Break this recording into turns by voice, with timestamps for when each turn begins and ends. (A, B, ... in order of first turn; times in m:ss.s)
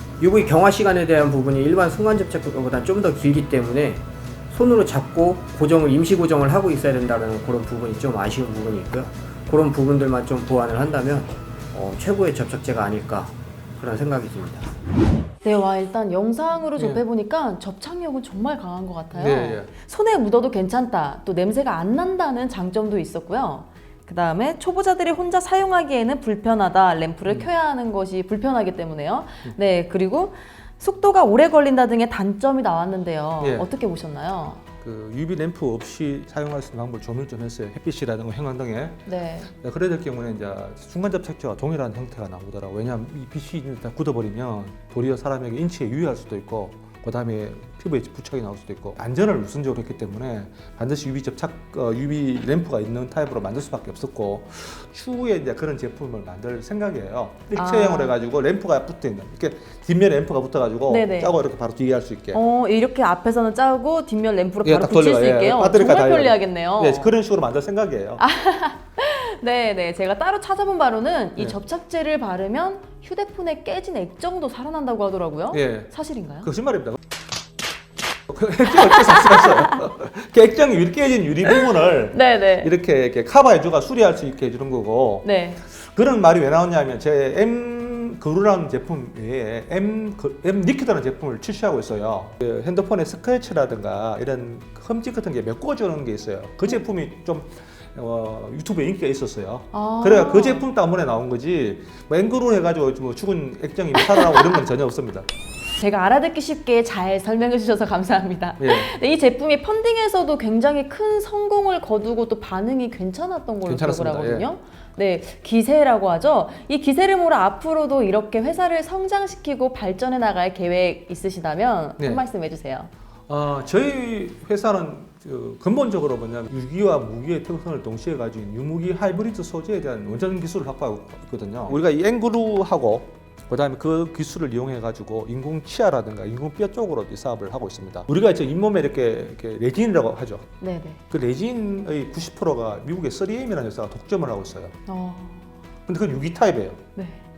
0:00.2-0:14.7 A
0:15.4-0:34.6 B
0:16.8-0:17.0 C
0:19.1-0:19.7 C
0:33.4-0:33.7 C
0:34.8-1:02.4 C
0:39.1-0:39.5 B
0:57.6-0:58.1 B
1:00.9-1:01.4 B
1:02.3-1:07.1 B
1:04.6-1:08.2 C
1:08.2-1:16.5 B
1:15.5-1:17.0 C
1:18.3-1:45.2 C
1:22.1-1:22.7 B
1:25.2-1:25.6 B
1:39.7-1:40.6 B
1:45.8-2:02.9 B
1:48.6-1:48.9 C
1:53.6-1:54.5 C
2:02.0-2:02.2 C
2:03.3-2:20.4 C
2:20.6-2:21.0 B
2:21.1-2:24.8 C
2:24.9-2:25.5 B
2:25.9-2:26.8 C
2:26.9-2:27.2 B